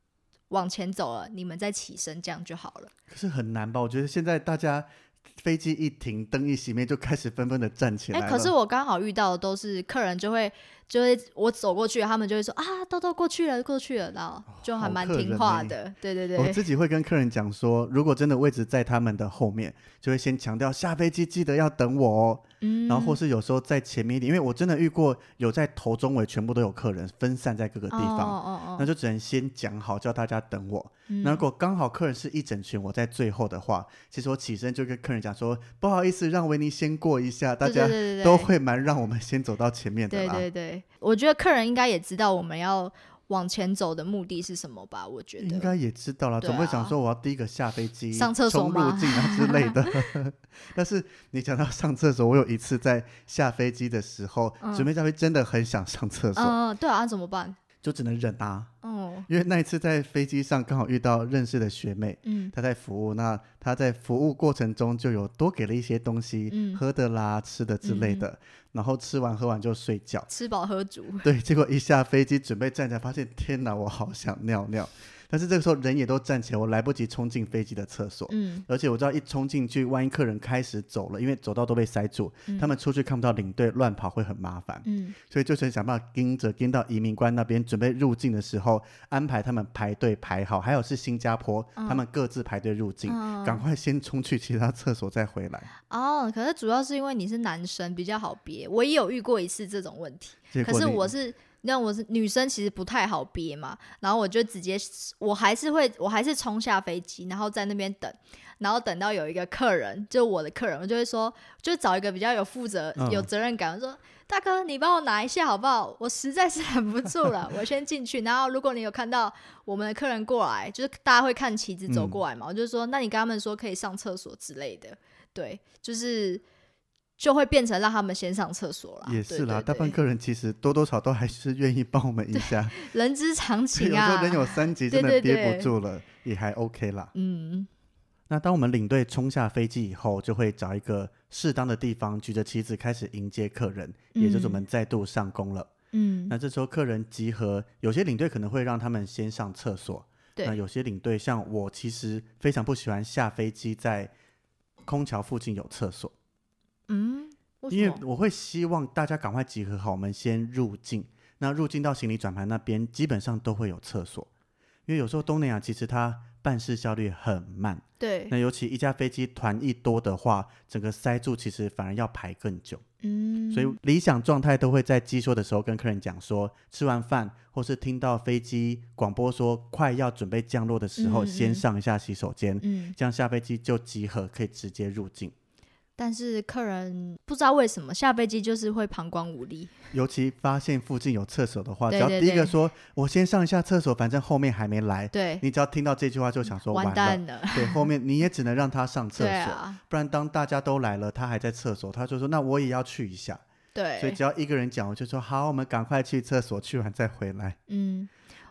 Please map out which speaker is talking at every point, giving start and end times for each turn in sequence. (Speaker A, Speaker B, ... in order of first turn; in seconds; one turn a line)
Speaker A: 0.5-2.9
Speaker B: 3.1-8.5
Speaker A: 8.1-16.6
Speaker B: 14.5-15.8
Speaker B: 16.4-40.4
Speaker A: 22.6-23.2
Speaker A: 27.9-28.9
Speaker A: 31.1-31.4
Speaker A: 37.6-38.5
Speaker A: 40.1-45.7
Speaker B: 45.4-56.6
Speaker A: 46.4-46.9
Speaker A: 48.1-50.1
Speaker A: 54.6-54.9
Speaker A: 56.4-57.6
Speaker B: 57.8-58.7
Speaker A: 58.8-59.3
Speaker B: 59.3-70.3
Speaker A: 62.2-62.5
Speaker A: 66.5-66.8
Speaker A: 67.8-68.2
Speaker A: 70.3-71.3
Speaker B: 71.2-95.7
Speaker A: 78.3-78.6
Speaker A: 84.8-85.2
Speaker A: 91.8-92.0
Speaker A: 93.1-93.6
Speaker A: 95.9-126.4
Speaker B: 100.5-101.1
Speaker B: 113.0-113.3
Speaker B: 121.9-122.2
Speaker A: 127.2-129.9
Speaker B: 129.0-132.8
Speaker A: 132.3-135.7
Speaker B: 133.7-137.1
Speaker A: 137.1-137.7
Speaker B: 138.3-145.7
Speaker A: 144.1-144.6
Speaker A: 145.9-146.3
Speaker B: 146.3-154.1
Speaker B: 154.8-156.1
Speaker A: 156.9-158.0
Speaker B: 157.7-164.3
Speaker B: 164.8-172.8
Speaker A: 168.0-168.3
Speaker A: 173.0-173.8
Speaker B: 173.5-185.3
Speaker A: 181.0-181.6
Speaker A: 182.6-182.9
Speaker A: 186.0-189.7
Speaker B: 189.9-203.4
Speaker A: 191.9-192.5
Speaker A: 195.1-195.4
Speaker A: 196.7-197.9
Speaker A: 199.2-199.8
Speaker A: 203.7-204.2
Speaker B: 204.0-207.6
Speaker A: 207.7-208.1